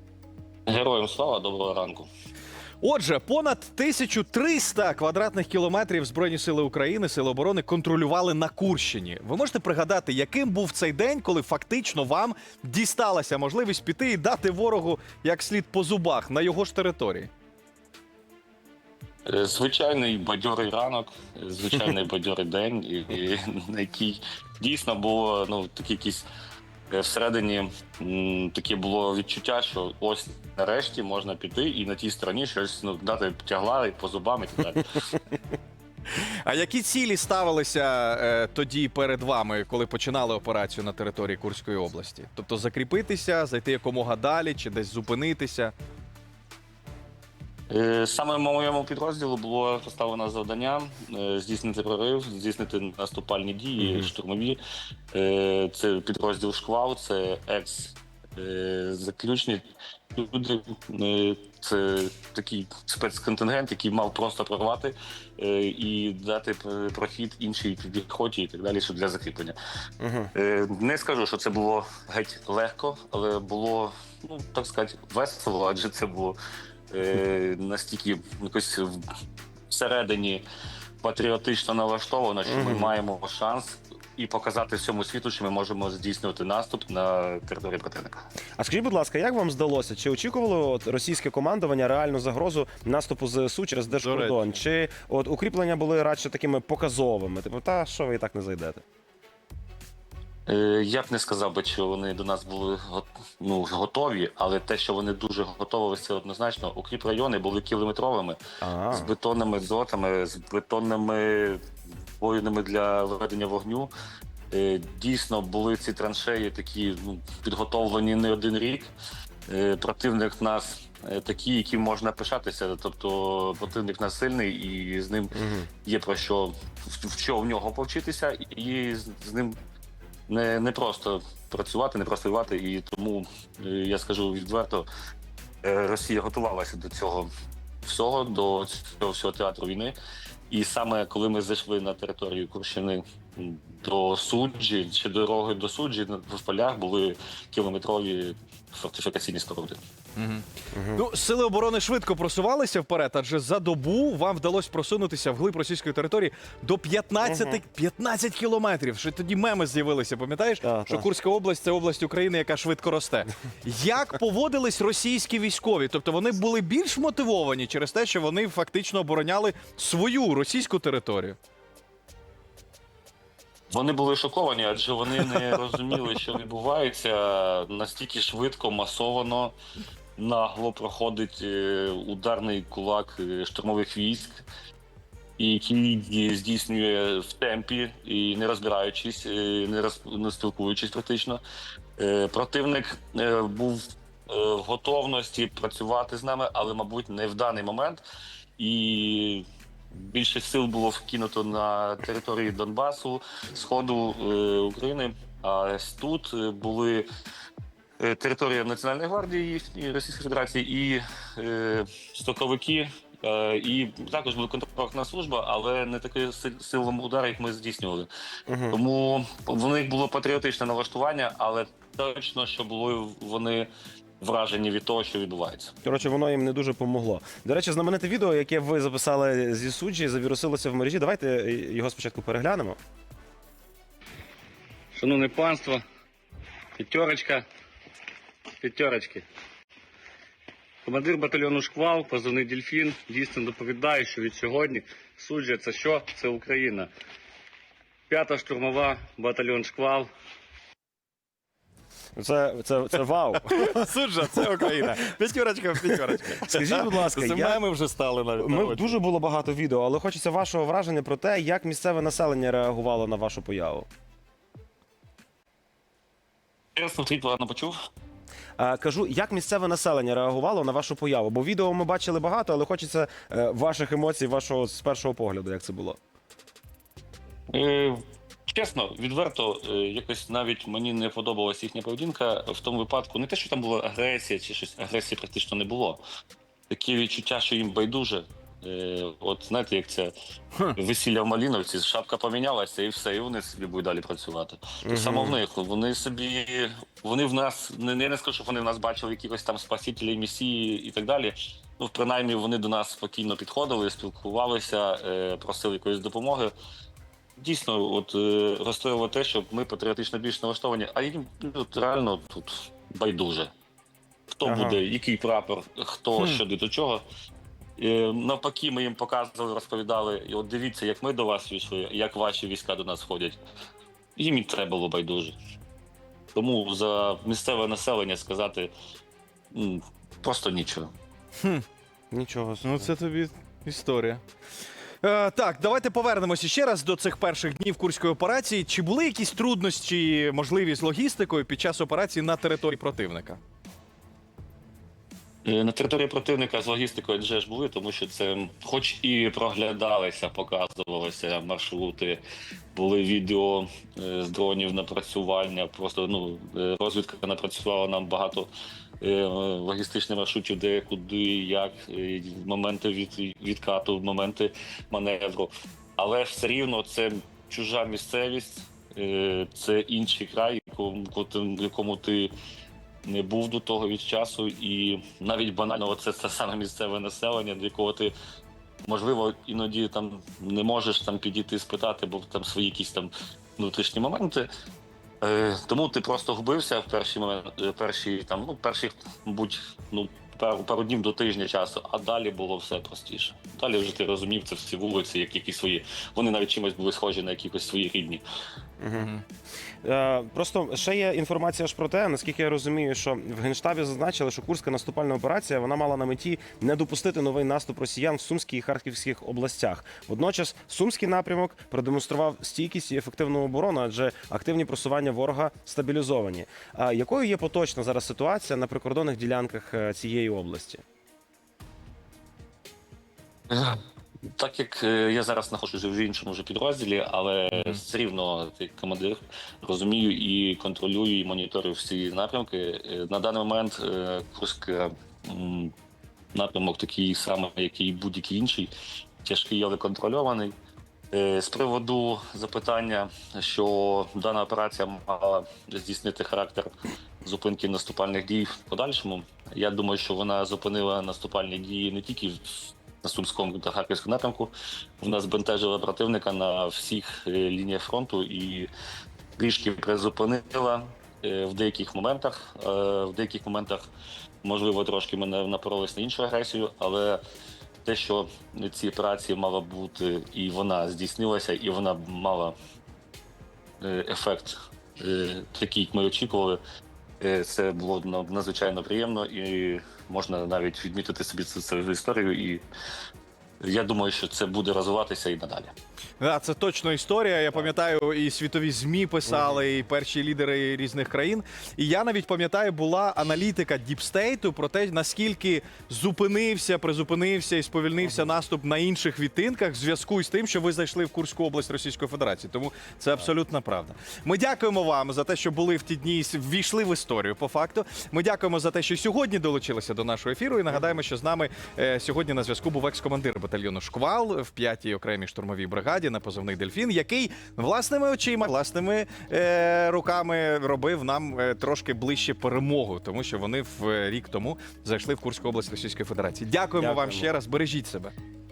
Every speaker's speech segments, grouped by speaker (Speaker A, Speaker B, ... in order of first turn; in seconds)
Speaker A: 0.7-2.1, 19.3-26.2, 26.9-35.2, 47.7-54.6, 55.1-59.6, 60.2-69.6, 70.3-76.3, 76.9-79.0, 79.7-80.4, 81.0-88.2, 100.5-108.4, 108.9-111.6, 112.2-113.9, 114.5-118.9, 119.5-129.6, 130.3-134.9, 135.6-137.3, 137.8-139.9, 140.5-149.8, 173.7-179.6, 180.2-184.4, 185.4-191.4, 192.0-198.0, 198.6-207.1, 208.0-218.1, 218.7-223.7, 224.2-225.8, 234.9-235.8, 236.8-237.4, 238.6-239.3, 240.8-246.9, 248.1-250.1, 266.8-267.8, 277.5-286.0, 286.7-290.1, 290.7-306.5, 307.4-313.5, 314.4-317.0, 317.8-323.4, 324.2-325.4, 326.4-328.7, 329.5-330.9, 345.4-352.2, 352.7-358.5, 359.0-372.3, 373.1-378.1, 378.9-384.5, 385.2-398.2, 423.5-423.8, 424.4-435.7, 436.3-438.7, 439.2-440.5, 441.1-446.7, 447.2-458.7, 459.4-463.9, 464.4-467.2, 467.9-472.6, 473.8-476.6, 477.2-482.6, 483.6-485.7
Speaker B: 2.8-17.3, 36.2-45.7, 93.9-94.5, 150.2-150.4, 151.0-171.4, 253.5-259.0, 332.6-334.2, 335.0-343.4, 398.9-399.2, 486.2-528.1
Speaker C: 53.8-54.1, 70.0-70.3, 82.5-82.9, 88.6-98.8, 108.6-109.1, 125.3-125.7, 150.7-151.0, 157.2-157.6, 160.6-161.1, 218.5-218.8, 225.8-232.8, 252.2-253.9, 256.3-257.6, 258.4-263.9, 268.6-276.0, 294.9-295.4, 314.4-314.8, 332.1-332.9, 398.8-399.1, 399.8-420.8, 489.3-489.6, 498.0-498.3, 526.8-527.3